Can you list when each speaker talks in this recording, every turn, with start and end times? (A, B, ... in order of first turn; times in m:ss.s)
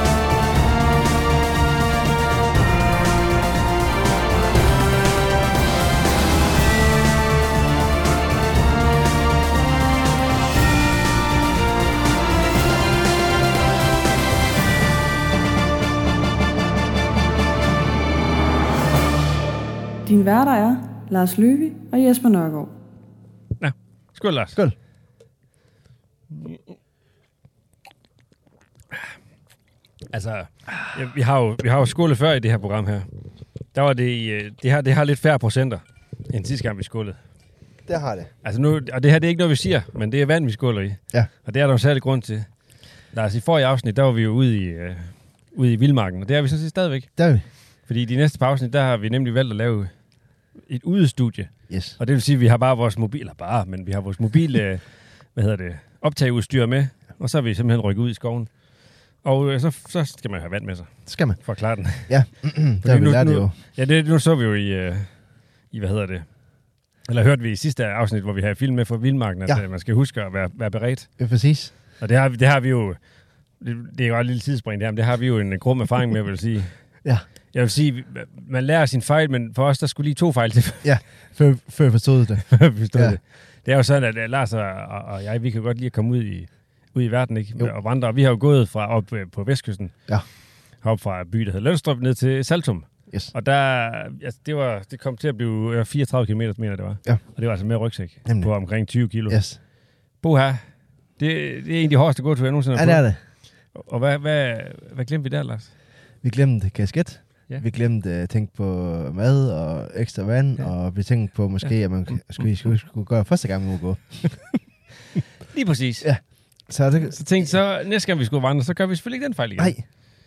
0:20.1-0:22.7 A
0:23.6-0:24.6 B
0:30.1-0:33.1 B
0:33.7-0:37.2 B
0:37.9-0:38.3 C
0:38.4-0:47.2 B
0:47.2-0:47.5 C
0:47.8-0:49.9 B
0:50.6-0:58.5 B
0:51.7-0:52.0 C
0:59.2-1:02.2 B
1:01.1-1:03.5 C
1:02.8-1:06.3 B
1:07.0-1:11.1 B
1:11.2-1:11.7 C
1:12.0-1:13.0 B
1:13.6-1:16.7 B
1:17.5-1:20.9 B
1:20.8-1:23.2 C
1:22.4-1:30.1 B
1:30.8-1:39.4 B
1:38.2-1:38.5 C
1:39.3-1:39.6 C
1:40.2-1:40.6 B
1:41.2-1:43.1 B
1:42.8-1:43.2 C
1:43.7-1:45.7 B
1:46.2-1:54.6 C
1:55.5-1:56.1 B
1:56.0-1:57.5 C
1:57.1-1:59.8 B
1:59.6-1:59.8 C